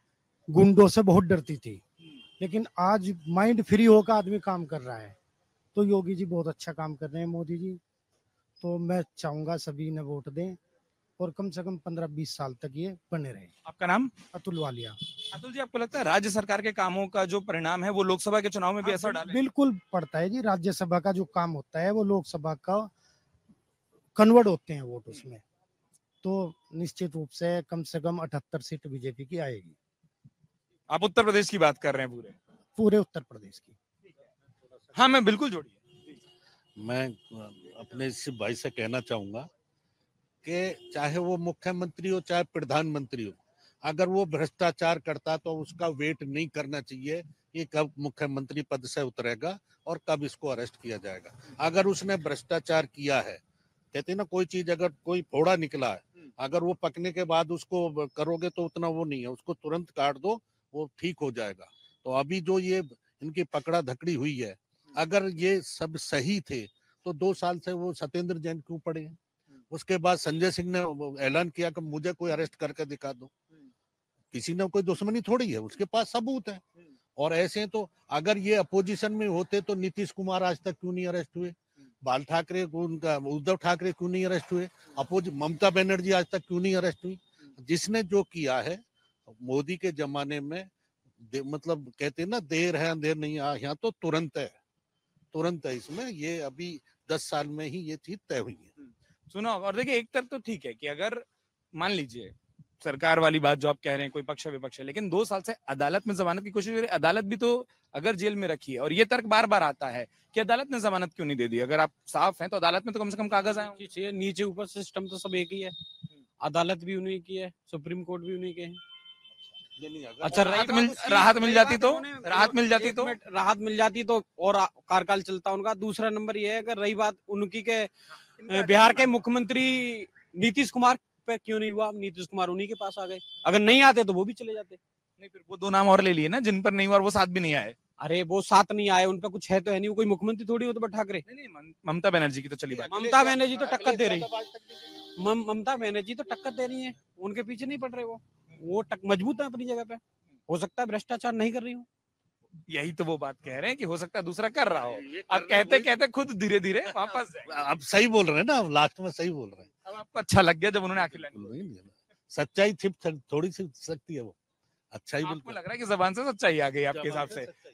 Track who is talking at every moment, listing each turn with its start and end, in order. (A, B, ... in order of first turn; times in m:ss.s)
0:00.5-0:01.8 A
0:02.4-0:05.2 A
0:05.7-0:07.8 A
0:08.6-0:10.6 A
0:11.2-0:13.5 A
0:13.6-0:14.1 B
0:14.3-0:15.0 A
0:15.3-0:19.4 B
0:18.8-0:22.9 A
0:24.2-0:25.4 A
0:26.2-0:29.8 A
0:30.9-0:32.4 B
0:32.8-0:33.8 A
0:34.9-0:36.0 B
0:36.8-0:39.5 C
0:40.4-0:53.4 C
0:53.9-1:09.2 C
1:09.7-1:13.3 C
1:14.3-1:16.6 C
1:17.2-1:30.7 C
1:31.2-1:34.6 C
1:35.3-1:38.7 C
1:39.3-1:53.8 B
1:53.5-1:55.8 D
1:56.4-1:58.8 D
1:59.8-2:00.5 C
2:00.2-2:07.9 D
2:00.4-2:03.2 B
2:08.5-2:14.8 D
2:15.2-2:17.8 B
2:18.0-2:21.2 D
2:21.3-2:23.3 B
2:22.8-2:24.3 D
2:23.1-2:24.5 C
2:25.0-2:31.9 D
2:32.7-2:37.5 B
2:35.1-2:35.9 C
2:37.1-2:39.7 C
2:39.8-2:41.5 B
2:40.9-2:44.4 C
2:44.9-2:45.6 C
2:45.2-2:47.5 B
2:46.9-2:47.5 C